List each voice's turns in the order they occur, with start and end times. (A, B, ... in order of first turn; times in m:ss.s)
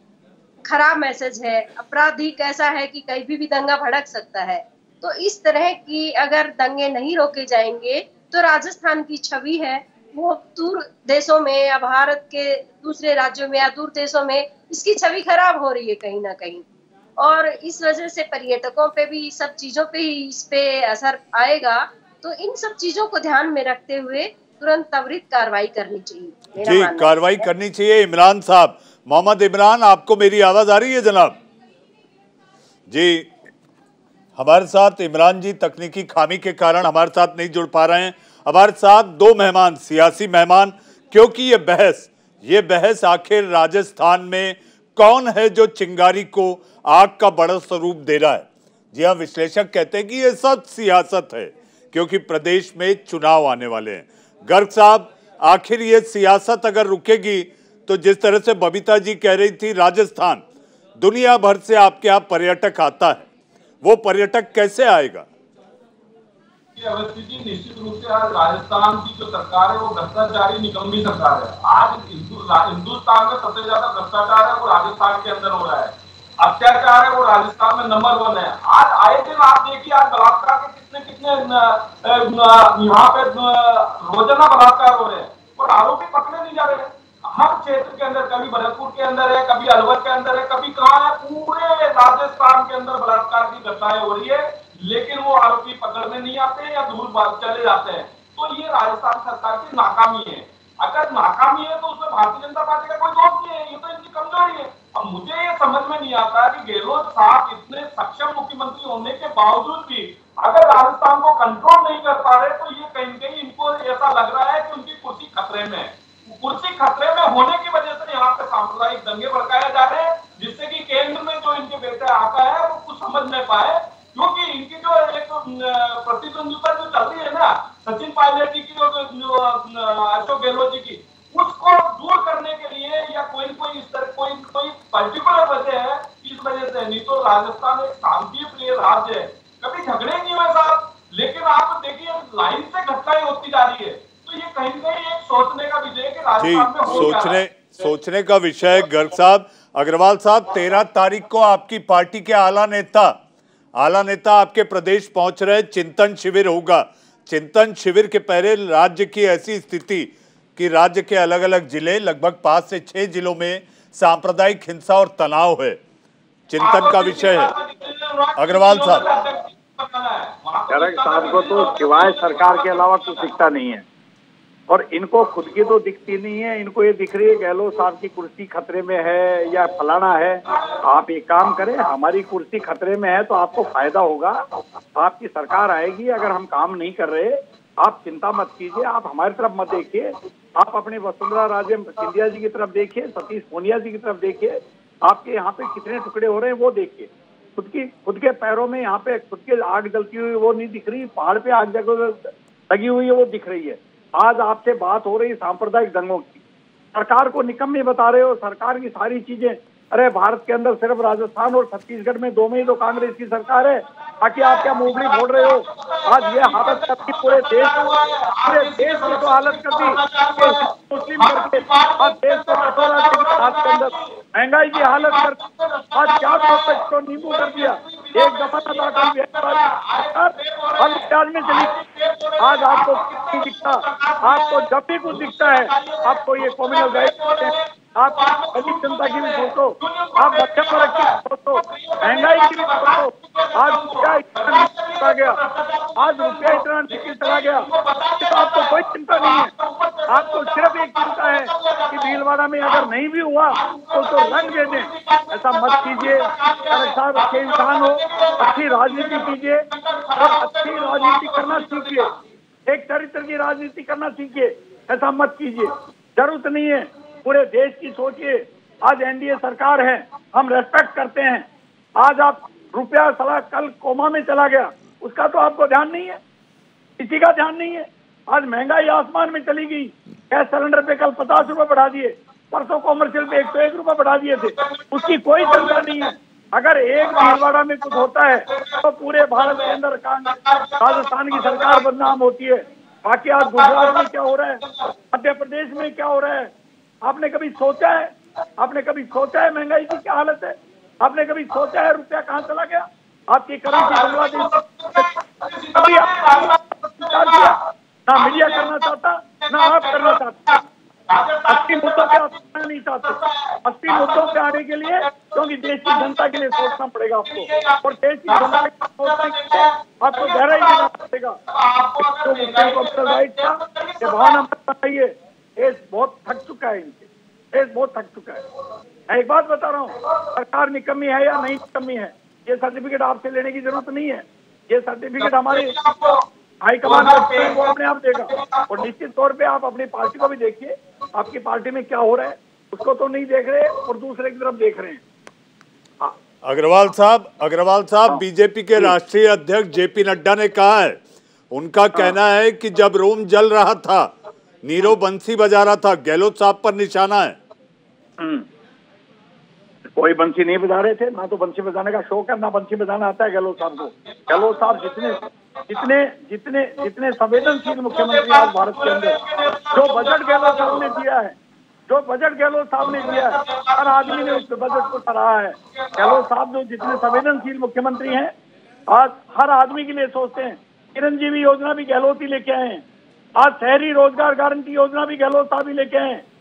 0:00.7-0:16.6 A
0:17.2-0:27.4 A
0:26.6-0:31.4 B
0:32.9-0:33.3 B
0:34.4-1:00.4 B
1:01.0-1:03.3 B
1:03.8-1:05.3 B
1:06.8-2:27.4 C
2:26.4-2:33.2 B
2:33.8-2:45.8 B
2:46.5-2:47.5 B
2:46.6-2:53.3 C
2:48.4-2:49.0 B
2:50.7-2:53.8 D
2:54.7-3:04.4 D
3:00.5-3:00.8 C
3:05.0-3:26.4 D
3:26.9-3:37.8 D
3:34.2-3:44.2 C
3:38.4-3:45.4 D
3:44.7-4:12.9 C
3:46.0-3:49.6 D
3:50.2-3:51.7 D
3:52.4-4:05.4 D
4:06.0-4:07.7 D
4:08.2-4:09.5 D
4:10.1-4:19.6 D
4:13.5-4:22.1 C
4:20.2-4:22.1 D
4:22.7-4:36.2 D
4:37.0-4:54.6 D
4:44.6-4:46.1 C
4:47.0-4:48.0 C
4:48.5-4:48.8 C
4:49.4-4:51.9 C
4:53.4-4:54.1 C
4:54.6-4:54.9 C
4:55.1-4:56.5 D
4:57.0-5:05.1 D
5:03.7-5:07.6 C
5:05.7-5:10.6 D
5:08.2-5:08.9 C
5:09.4-5:12.4 C
5:11.5-5:21.4 D
5:13.0-5:16.8 C
5:17.3-5:20.9 C
5:21.5-5:24.4 C
5:22.0-5:28.4 D
5:29.1-5:35.8 D
5:35.2-5:36.2 C
5:36.6-5:45.0 D
5:36.8-5:37.8 C
5:38.3-5:38.9 C
5:46.4-5:54.1 B
5:54.6-5:57.4 B
5:58.2-5:58.5 D
6:00.0-6:09.2 D
6:04.3-6:05.9 C
6:07.4-6:11.0 C
6:09.7-6:11.4 D
6:11.9-6:18.3 D
6:12.8-6:14.9 C
6:15.8-6:16.2 C
6:18.9-6:22.8 D
6:23.4-6:26.2 D